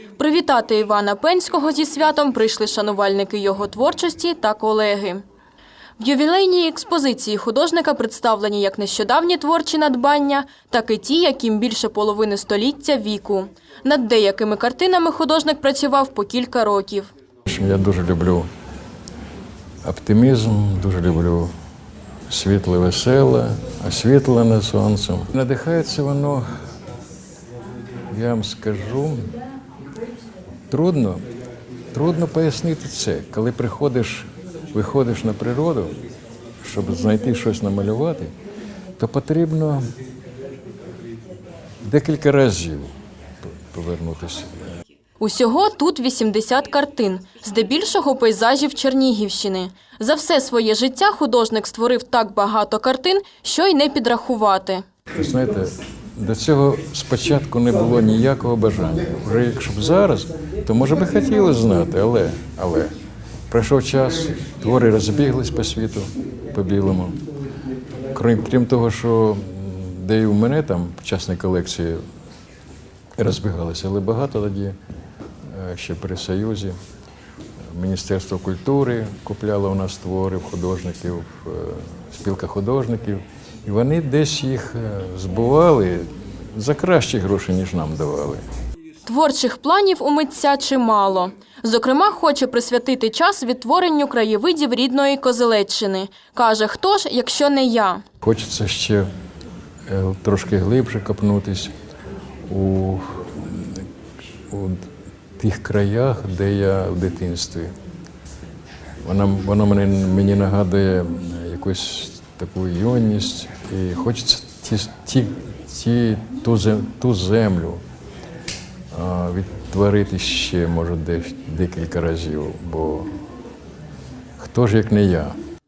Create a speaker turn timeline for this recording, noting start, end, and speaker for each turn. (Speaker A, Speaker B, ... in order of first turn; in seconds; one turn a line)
Speaker A: 0.2-5.2
Speaker A: 6.0-17.1
Speaker B: 17.5-18.5
Speaker B: 19.8-21.5
Speaker B: 22.3-26.4
Speaker B: 28.1-29.3
Speaker B: 30.7-31.2
Speaker B: 31.9-36.0
Speaker B: 36.6-38.3
Speaker B: 39.0-39.9
Speaker B: 41.8-42.9
Speaker B: 43.7-44.6
Speaker A: 45.2-54.8
Speaker B: 55.1-62.9
Speaker B: 63.5-67.2
Speaker B: 68.1-72.0
Speaker B: 73.2-74.8
Speaker B: 75.5-76.8
Speaker B: 77.7-88.4
Speaker A: 89.0-98.0
Speaker B: 98.2-99.1
Speaker B: 99.9-101.7
Speaker B: 102.5-103.8
Speaker B: 104.5-107.7
Speaker B: 109.0-117.8
Speaker B: 118.9-123.1
Speaker B: 124.4-125.4